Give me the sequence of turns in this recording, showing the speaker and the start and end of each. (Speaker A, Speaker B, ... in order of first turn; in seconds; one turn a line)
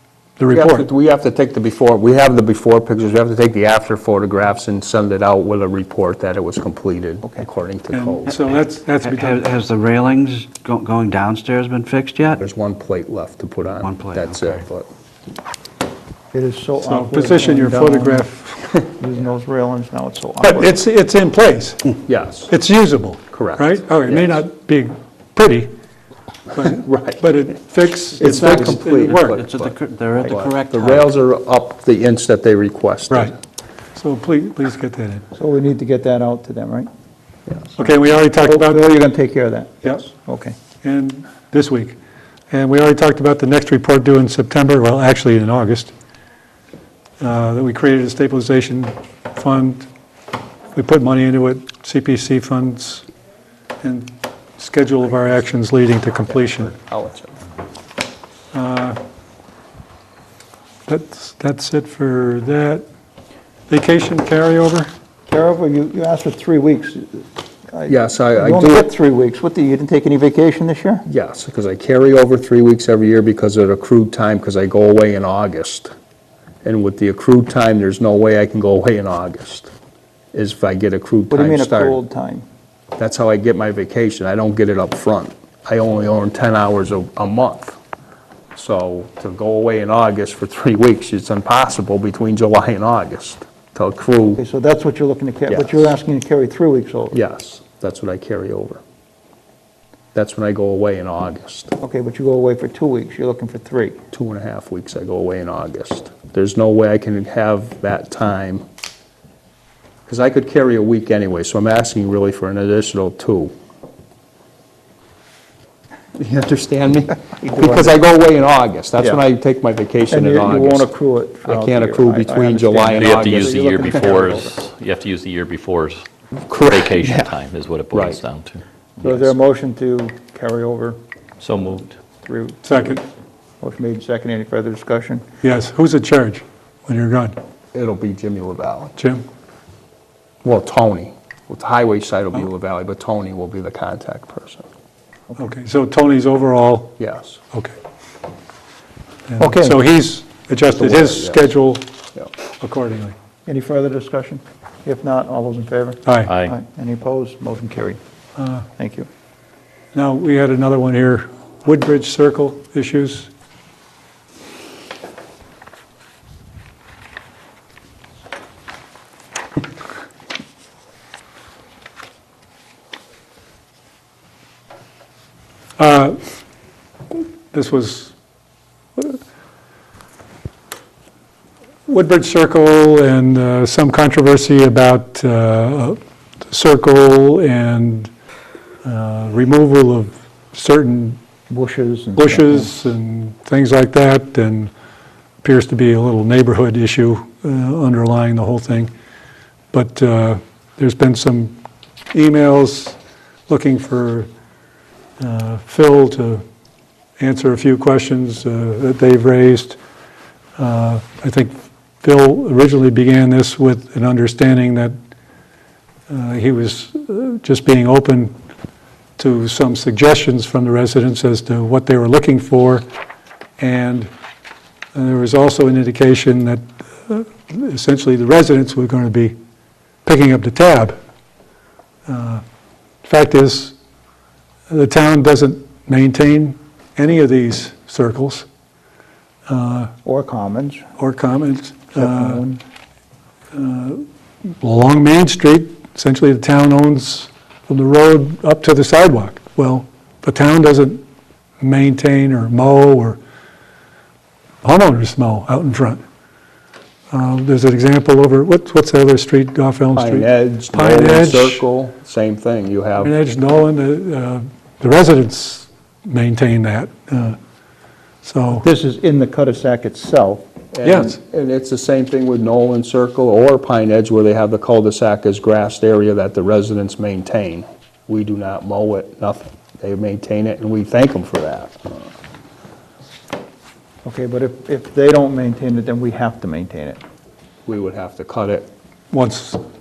Speaker A: 0.4-0.9
Speaker B: 0.5-8.4
Speaker A: 7.9-9.4
Speaker C: 9.0-12.4
Speaker B: 12.4-14.9
Speaker C: 13.8-14.6
Speaker D: 16.3-20.8
Speaker A: 16.8-18.8
Speaker A: 20.4-22.0
Speaker B: 22.1-22.5
Speaker A: 22.5-25.7
Speaker B: 23.3-24.4
Speaker A: 26.5-29.4
Speaker B: 26.6-27.2
Speaker B: 28.2-33.4
Speaker C: 29.1-31.1
Speaker A: 34.0-35.3
Speaker D: 35.4-36.9
Speaker A: 37.8-38.9
Speaker D: 38.4-40.5
Speaker A: 39.8-40.1
Speaker A: 40.8-42.0
Speaker A: 42.5-45.9
Speaker A: 47.2-49.9
Speaker A: 50.7-53.1
Speaker A: 53.8-56.7
Speaker B: 56.3-57.4
Speaker A: 58.5-59.0
Speaker A: 60.9-62.9
Speaker A: 63.7-64.9
Speaker D: 65.3-71.0
Speaker B: 67.9-68.9
Speaker B: 71.1-75.9
Speaker B: 76.6-79.7
Speaker B: 80.3-82.0
Speaker D: 81.3-82.5
Speaker B: 83.0-87.8
Speaker B: 88.5-94.4
Speaker D: 94.4-97.2
Speaker B: 95.5-96.0
Speaker B: 97.1-98.8
Speaker B: 100.1-101.8
Speaker D: 101.8-104.0
Speaker B: 104.1-108.6
Speaker B: 110.1-113.5
Speaker B: 116.2-120.9
Speaker D: 117.2-118.0
Speaker D: 120.1-124.6
Speaker B: 121.4-124.0
Speaker E: 123.0-129.2
Speaker B: 126.5-127.3
Speaker B: 127.9-128.2
Speaker D: 129.0-131.0
Speaker E: 131.4-132.0
Speaker D: 132.2-133.0
Speaker A: 132.7-133.0
Speaker D: 133.6-135.2
Speaker A: 135.4-137.4
Speaker B: 137.7-138.9
Speaker A: 139.0-139.2
Speaker B: 140.4-144.7
Speaker A: 145.4-147.0
Speaker B: 147.0-147.4
Speaker A: 149.3-151.9
Speaker D: 149.4-149.8
Speaker B: 150.7-151.5
Speaker A: 152.6-153.2
Speaker D: 153.5-158.0
Speaker A: 156.1-156.3
Speaker E: 156.3-156.5
Speaker A: 158.4-158.7
Speaker D: 158.8-159.1
Speaker A: 159.9-163.3
Speaker A: 175.8-176.2
Speaker A: 177.1-178.1
Speaker A: 181.9-188.1
Speaker A: 188.8-191.2
Speaker D: 191.5-192.7
Speaker A: 192.2-194.7
Speaker A: 195.4-198.9
Speaker A: 199.7-201.6
Speaker A: 202.1-203.0
Speaker A: 203.5-204.3
Speaker A: 205.2-206.4
Speaker A: 207.2-209.8
Speaker A: 210.6-215.0
Speaker A: 216.1-218.3
Speaker A: 219.2-222.9
Speaker A: 223.6-224.1
Speaker A: 224.9-229.4
Speaker A: 230.1-231.0
Speaker A: 232.1-232.4
Speaker A: 233.0-233.8
Speaker A: 234.7-238.5
Speaker A: 239.5-239.9
Speaker D: 240.1-240.8
Speaker A: 241.0-242.5
Speaker D: 241.9-242.6
Speaker A: 243.5-244.1
Speaker A: 244.6-251.0
Speaker A: 251.6-253.2
Speaker A: 254.6-256.0
Speaker A: 257.1-261.6
Speaker B: 259.9-263.1
Speaker A: 263.0-267.4
Speaker A: 268.2-268.7
Speaker D: 268.5-270.5
Speaker B: 270.7-282.1
Speaker A: 270.9-271.2
Speaker D: 284.0-287.0
Speaker B: 287.7-288.7
Speaker A: 289.1-289.6